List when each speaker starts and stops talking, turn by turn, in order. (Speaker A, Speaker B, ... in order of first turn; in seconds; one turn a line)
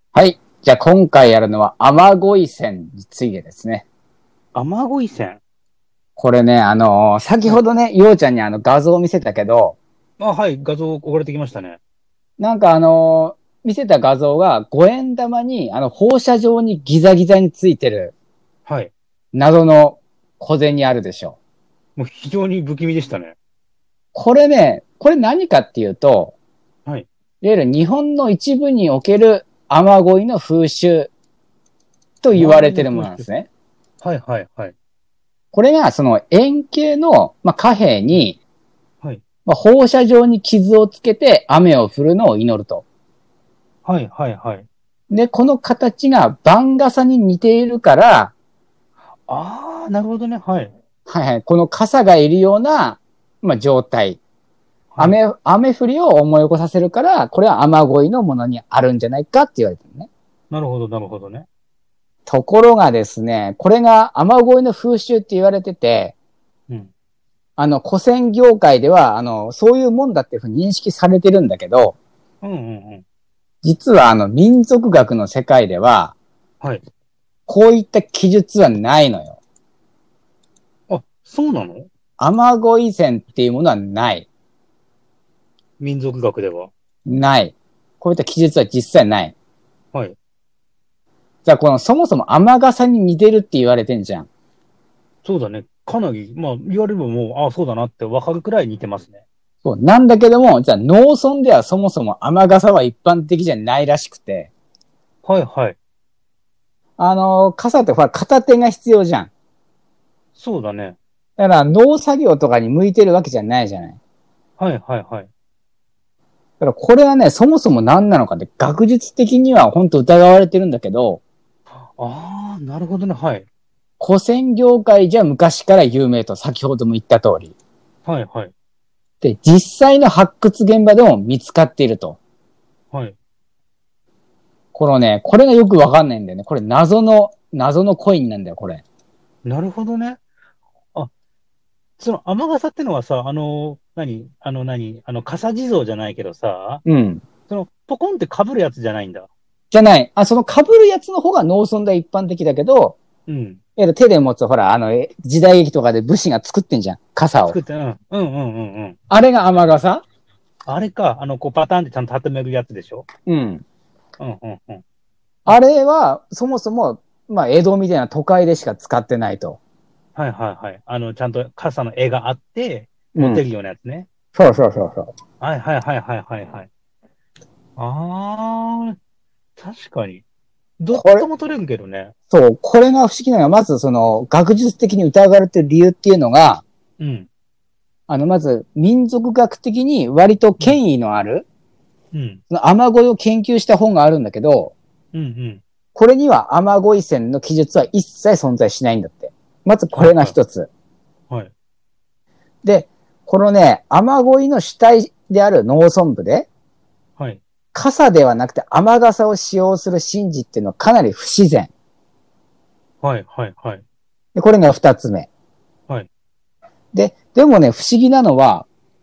Speaker A: 0.1-3.9
Speaker B: 4.5-5.4
Speaker A: 6.2-9.8
Speaker B: 10.2-11.8
Speaker A: 12.4-18.1
Speaker B: 18.7-18.9
Speaker A: 19.3-21.4
Speaker B: 22.0-23.4
Speaker A: 24.1-26.4
Speaker A: 27.4-31.1
Speaker A: 32.2-33.5
Speaker B: 32.4-33.3
Speaker B: 34.0-34.8
Speaker A: 35.5-38.4
Speaker A: 39.5-42.9
Speaker B: 43.9-44.7
Speaker A: 45.1-48.3
Speaker B: 49.3-50.7
Speaker A: 51.1-54.2
Speaker A: 55.0-60.1
Speaker B: 60.5-61.5
Speaker A: 62.3-66.2
Speaker A: 67.6-72.0
Speaker B: 72.4-73.0
Speaker A: 73.6-76.2
Speaker A: 77.5-79.4
Speaker B: 80.9-81.9
Speaker A: 82.2-84.3
Speaker B: 85.8-86.7
Speaker A: 87.1-89.3
Speaker A: 91.5-94.3
Speaker B: 95.2-99.2
Speaker A: 99.6-104.5
Speaker B: 105.2-105.8
Speaker A: 107.0-109.3
Speaker B: 110.4-111.0
Speaker A: 111.4-114.0
Speaker B: 114.6-115.3
Speaker A: 116.6-121.2
Speaker B: 121.8-123.5
Speaker A: 124.0-127.5
Speaker B: 128.1-128.5
Speaker A: 129.2-132.2
Speaker A: 134.7-138.8
Speaker B: 139.4-140.2
Speaker B: 142.0-146.8
Speaker A: 146.9-147.2
Speaker B: 147.5-149.3
Speaker A: 149.7-153.0
Speaker B: 153.3-153.6
Speaker A: 153.8-157.6
Speaker B: 157.4-159.0
Speaker A: 159.1-160.0
Speaker B: 160.7-163.1
Speaker A: 163.3-163.6
Speaker B: 164.2-164.8
Speaker A: 165.5-169.6
Speaker B: 170.2-174.1
Speaker A: 173.2-173.4
Speaker A: 174.3-175.1
Speaker B: 175.4-176.7
Speaker B: 177.8-179.0
Speaker B: 179.6-180.2
Speaker B: 180.8-182.1
Speaker A: 180.9-181.3
Speaker A: 182.3-186.6
Speaker B: 187.0-187.3
Speaker A: 188.1-191.5
Speaker B: 192.1-192.4
Speaker A: 192.5-194.7
Speaker B: 195.1-195.6
Speaker A: 195.9-200.7
Speaker B: 199.9-200.4
Speaker A: 202.6-206.5
Speaker B: 207.2-207.4
Speaker A: 207.7-211.7
Speaker B: 213.0-213.8
Speaker A: 214.3-215.3
Speaker A: 216.9-218.7